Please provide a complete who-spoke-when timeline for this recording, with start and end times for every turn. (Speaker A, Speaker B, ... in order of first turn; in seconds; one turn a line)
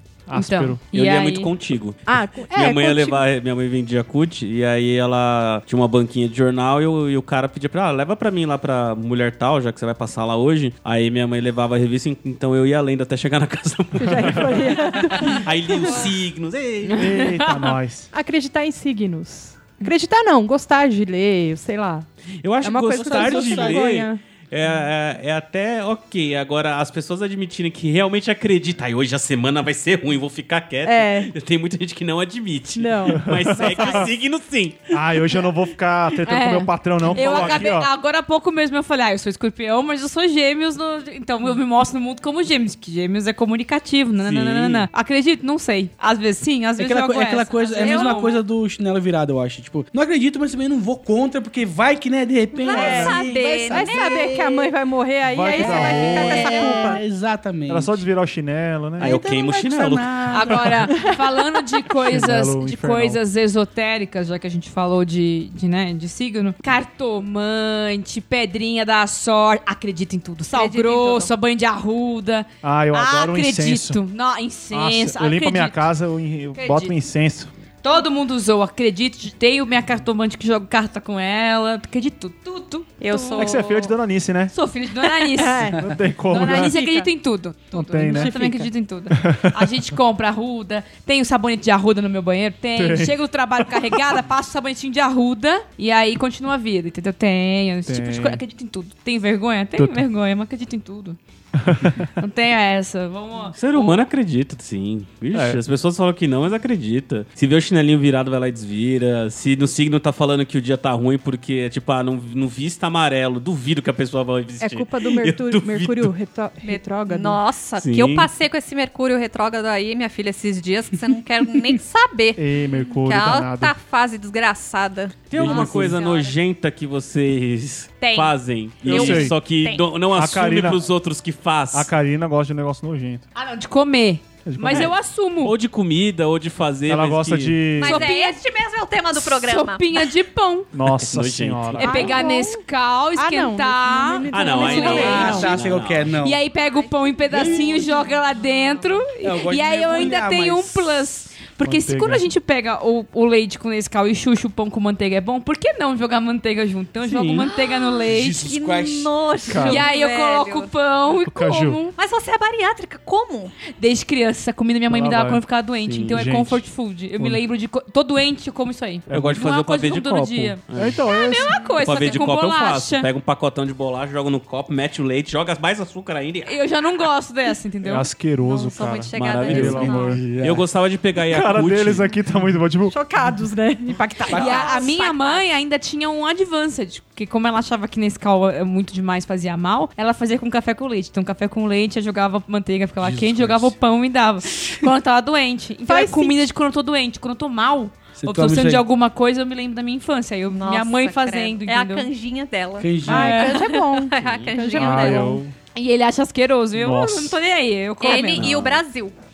Speaker A: 0.3-0.8
Speaker B: 0.3-1.5
Speaker C: 0.9-17.2
Speaker D: 2.1-3.2
Speaker D: 14.0-16.1
Speaker B: 16.9-17.8
Speaker A: 16.9-18.1
Speaker D: 18.1-22.1
Speaker C: 22.4-35.5
Speaker D: 22.6-24.2
Speaker E: 23.0-23.9
Speaker D: 30.8-31.3
Speaker D: 32.7-34.0
Speaker A: 33.1-34.1
Speaker A: 34.9-37.9
Speaker B: 36.2-48.4
Speaker C: 37.1-37.6
Speaker C: 44.2-44.9
Speaker E: 46.8-54.6
Speaker F: 47.8-48.2
Speaker F: 52.6-54.4
Speaker D: 52.7-57.0
Speaker A: 55.2-56.5
Speaker F: 55.5-56.8
Speaker E: 55.6-58.0
Speaker A: 57.7-59.2
Speaker C: 59.0-60.6
Speaker E: 59.0-60.9
Speaker B: 60.3-75.9
Speaker A: 62.0-63.2
Speaker F: 70.5-71.3
Speaker A: 72.6-74.0
Speaker A: 74.7-77.5
Speaker B: 76.5-76.9
Speaker B: 77.8-83.6
Speaker F: 83.0-83.9
Speaker A: 83.3-84.5
Speaker B: 84.5-101.2
Speaker D: 85.3-87.0
Speaker A: 85.7-86.8
Speaker A: 87.7-89.8
Speaker D: 88.1-88.7
Speaker A: 92.7-94.2
Speaker A: 97.9-98.4
Speaker A: 99.8-100.0
Speaker A: 101.6-102.1
Speaker B: 102.2-104.0
Speaker C: 103.5-116.1
Speaker A: 105.3-105.6
Speaker D: 114.6-117.4
Speaker F: 116.6-126.3
Speaker C: 117.8-118.3
Speaker A: 122.4-123.7
Speaker C: 125.3-131.9
Speaker E: 125.4-126.0
Speaker F: 128.0-129.9
Speaker A: 128.8-129.4
Speaker A: 130.1-130.9
Speaker A: 131.7-133.2
Speaker B: 133.3-135.5
Speaker A: 134.4-134.9
Speaker C: 134.7-137.6
Speaker A: 136.9-138.1
Speaker F: 137.8-140.1
Speaker B: 137.8-138.4
Speaker B: 139.1-140.7
Speaker A: 140.7-142.1
Speaker C: 140.9-142.2
Speaker B: 141.8-145.6
Speaker D: 141.8-142.6
Speaker D: 143.1-145.6
Speaker C: 144.3-146.2
Speaker F: 144.6-145.5
Speaker E: 144.7-146.5
Speaker B: 146.2-158.4
Speaker F: 146.5-148.1
Speaker E: 147.3-147.8
Speaker E: 149.2-151.0
Speaker A: 151.6-152.3
Speaker C: 157.0-157.5
Speaker E: 158.0-159.2
Speaker F: 158.4-160.7
Speaker A: 159.4-159.9
Speaker B: 159.6-161.9
Speaker A: 161.2-161.8
Speaker F: 161.9-163.5
Speaker B: 163.8-173.1
Speaker A: 164.9-165.4
Speaker C: 165.9-166.2
Speaker A: 166.1-167.4
Speaker A: 169.1-169.4
Speaker C: 169.1-171.0
Speaker A: 170.7-171.5
Speaker F: 171.1-171.8
Speaker C: 171.8-176.5
Speaker B: 176.4-178.1
Speaker A: 177.8-180.3
Speaker F: 178.4-180.2
Speaker C: 179.2-182.1
Speaker E: 180.1-180.6
Speaker A: 181.3-182.9
Speaker D: 182.9-184.7
Speaker B: 184.3-202.1
Speaker E: 184.3-184.6
Speaker F: 184.3-185.5
Speaker E: 193.0-193.7
Speaker D: 195.8-196.5
Speaker E: 198.2-198.8
Speaker F: 200.5-205.3
Speaker E: 202.8-203.5
Speaker B: 203.1-203.6
Speaker D: 203.1-205.4
Speaker C: 204.2-204.6
Speaker A: 204.7-205.5
Speaker B: 205.7-208.5
Speaker A: 206.8-207.4
Speaker F: 208.0-209.2
Speaker C: 208.3-208.8